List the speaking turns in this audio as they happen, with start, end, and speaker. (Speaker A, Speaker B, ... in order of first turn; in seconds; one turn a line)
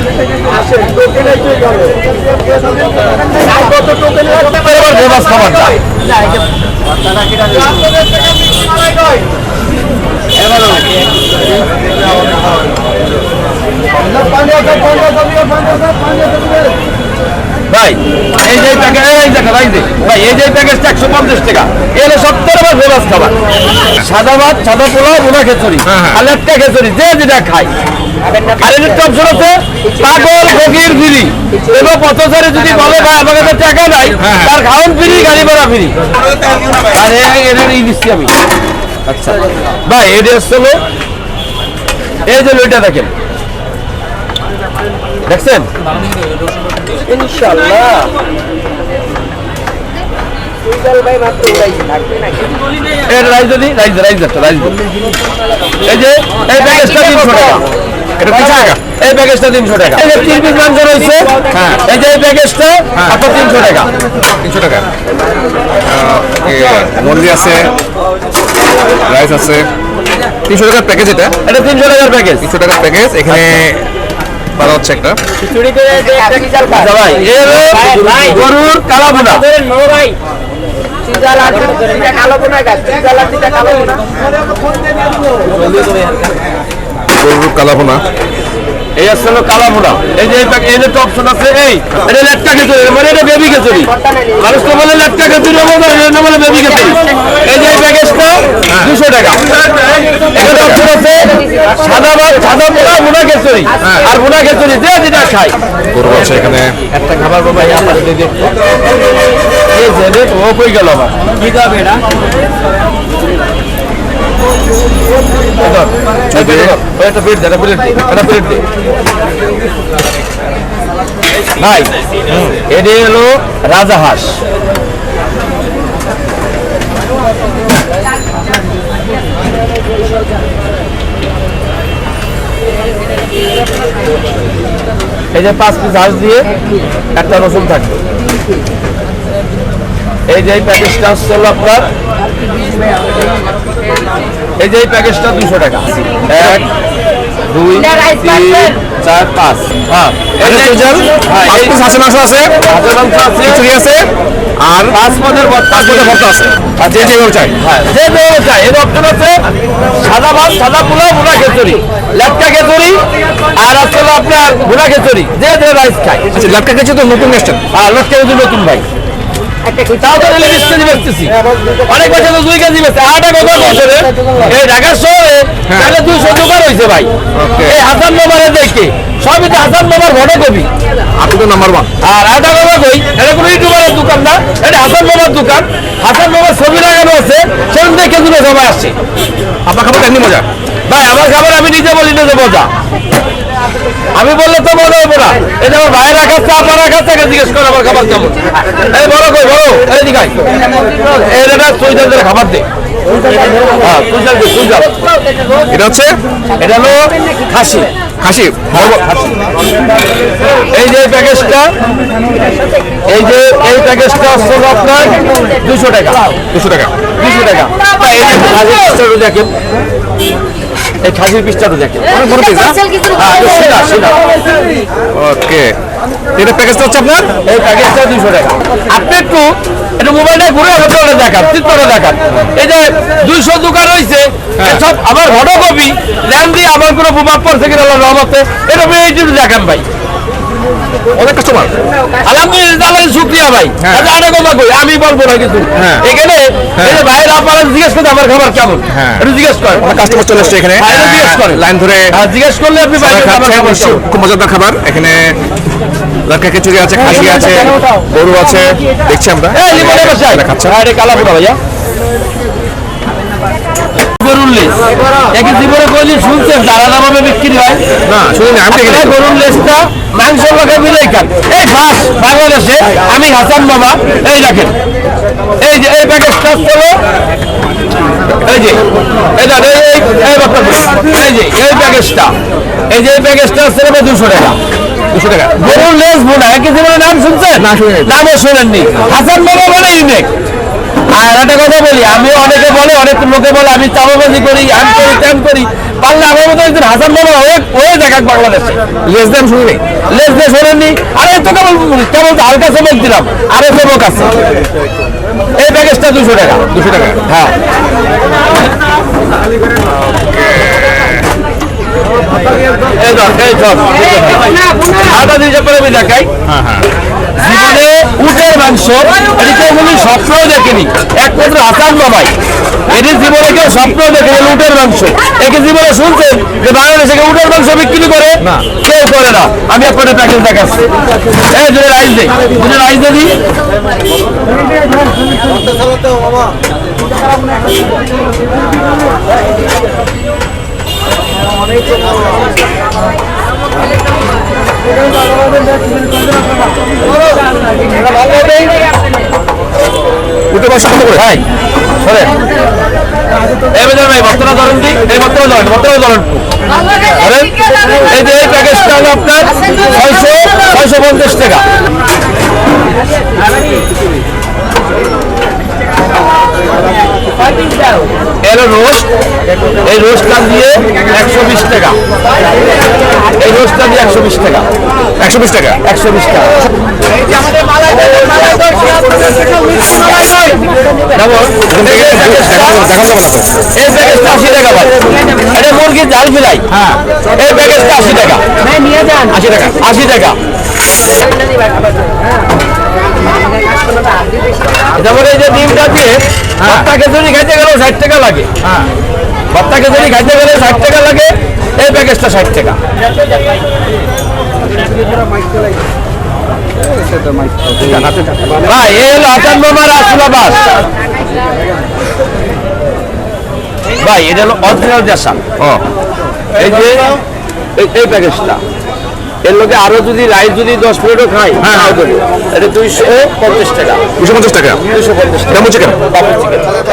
Speaker A: 0.4-2.0
Speaker A: 3.4-5.8
Speaker A: 17.7-23.4
Speaker A: 23.9-27.7
Speaker B: 25.9-26.2
Speaker C: 28.3-28.6
Speaker A: 28.6-36.0
Speaker B: 34.2-34.5
Speaker A: 36.9-38.3
Speaker A: 39.1-40.8
Speaker A: 42.2-43.1
Speaker A: 45.2-45.7
Speaker C: 47.1-48.1
Speaker C: 50.7-52.4
Speaker A: 53.0-54.8
Speaker A: 55.8-57.7
Speaker C: 56.9-57.4
Speaker B: 58.2-58.8
Speaker A: 58.3-63.9
Speaker B: 61.5-61.8
Speaker B: 64.4-64.9
Speaker B: 65.8-67.7
Speaker B: 69.0-69.7
Speaker B: 70.5-71.3
Speaker A: 71.5-72.5
Speaker B: 72.4-73.9
Speaker B: 74.6-75.2
Speaker C: 75.4-78.4
Speaker A: 76.7-79.5
Speaker C: 79.3-80.2
Speaker C: 81.1-84.0
Speaker B: 87.2-88.0
Speaker A: 89.0-99.5
Speaker B: 98.7-98.9
Speaker A: 100.3-105.6
Speaker B: 100.3-100.8
Speaker B: 103.8-104.1
Speaker B: 105.9-106.8
Speaker A: 106.9-108.4
Speaker A: 109.7-111.3
Speaker A: 115.6-118.7
Speaker B: 116.3-116.7
Speaker A: 121.6-121.9
Speaker B: 122.3-122.6
Speaker A: 122.7-124.4
Speaker A: 135.3-136.5
Speaker A: 137.1-138.0
Speaker A: 140.3-141.9
Speaker A: 144.6-146.7
Speaker B: 146.3-146.6
Speaker A: 147.5-151.8
Speaker C: 147.8-148.8
Speaker B: 150.4-152.6
Speaker A: 152.6-153.7
Speaker B: 153.4-155.0
Speaker A: 154.9-156.2
Speaker B: 155.7-157.5
Speaker A: 156.8-159.4
Speaker A: 160.0-163.0
Speaker A: 163.5-166.3
Speaker B: 166.3-167.6
Speaker A: 167.7-168.8
Speaker C: 169.7-170.0
Speaker A: 169.9-177.1
Speaker B: 175.7-175.9
Speaker B: 177.3-177.8
Speaker A: 177.6-180.7
Speaker B: 181.2-181.9
Speaker A: 182.0-188.9
Speaker B: 189.7-190.5
Speaker A: 190.9-192.7
Speaker A: 194.1-200.5
Speaker A: 201.0-202.7
Speaker A: 203.7-205.0
Speaker B: 205.7-206.2
Speaker A: 206.6-207.9
Speaker B: 208.2-209.0
Speaker A: 208.7-209.2
Speaker A: 210.5-211.7
Speaker A: 213.1-216.3
Speaker B: 216.5-216.9
Speaker A: 217.2-219.5
Speaker A: 221.0-222.1
Speaker B: 222.1-222.8
Speaker A: 223.1-224.2
Speaker B: 225.1-225.8
Speaker B: 226.3-227.3
Speaker A: 227.4-239.9
Speaker B: 241.1-241.7
Speaker A: 242.2-249.9
Speaker B: 243.8-244.1
Speaker B: 245.8-246.1
Speaker B: 246.8-247.0
Speaker B: 248.9-249.3
Speaker B: 249.8-252.2
Speaker A: 250.8-254.0
Speaker B: 253.0-255.4
Speaker B: 256.3-260.8
Speaker A: 259.5-261.6
Speaker A: 264.2-264.8
Speaker A: 265.3-267.9
Speaker B: 268.1-269.2
Speaker A: 268.7-274.8
Speaker A: 275.6-277.0
Speaker A: 278.4-278.8
Speaker A: 279.4-282.3
Speaker A: 282.9-284.6
Speaker B: 285.1-285.8
Speaker A: 285.6-290.3
Speaker B: 287.6-288.2
Speaker A: 291.1-298.8
Speaker B: 299.1-299.8
Speaker A: 300.1-304.4
Speaker A: 305.6-307.5
Speaker B: 306.7-307.2
Speaker B: 310.4-311.1
Speaker A: 313.0-316.3
Speaker C: 314.5-315.1
Speaker B: 316.5-316.9
Speaker A: 317.4-322.4
Speaker A: 322.9-330.9
Speaker A: 331.4-333.4
Speaker A: 348.2-348.5
Speaker B: 350.5-351.3
Speaker A: 351.1-351.4
Speaker A: 352.0-352.3
Speaker A: 353.7-356.4
Speaker A: 357.1-361.7
Speaker C: 367.5-368.1
Speaker A: 368.4-369.1
Speaker A: 369.8-372.0
Speaker A: 373.3-374.7
Speaker B: 375.2-375.8
Speaker A: 375.8-376.6
Speaker A: 377.9-378.7
Speaker A: 381.1-382.8
Speaker B: 381.7-383.6
Speaker A: 383.8-386.7
Speaker B: 386.7-387.0
Speaker A: 387.3-388.5
Speaker C: 388.7-389.4
Speaker B: 389.2-389.8
Speaker A: 389.8-390.4
Speaker C: 393.8-394.3
Speaker A: 394.9-398.5
Speaker B: 396.6-396.9
Speaker B: 398.6-398.9
Speaker A: 399.5-402.8
Speaker B: 407.8-408.4
Speaker A: 408.6-410.8
Speaker A: 414.0-415.4
Speaker B: 415.6-415.8
Speaker A: 416.6-417.1
Speaker A: 417.8-418.6
Speaker A: 419.4-424.1
Speaker B: 421.6-422.0
Speaker B: 424.2-424.8
Speaker A: 424.9-426.7
Speaker B: 425.5-426.0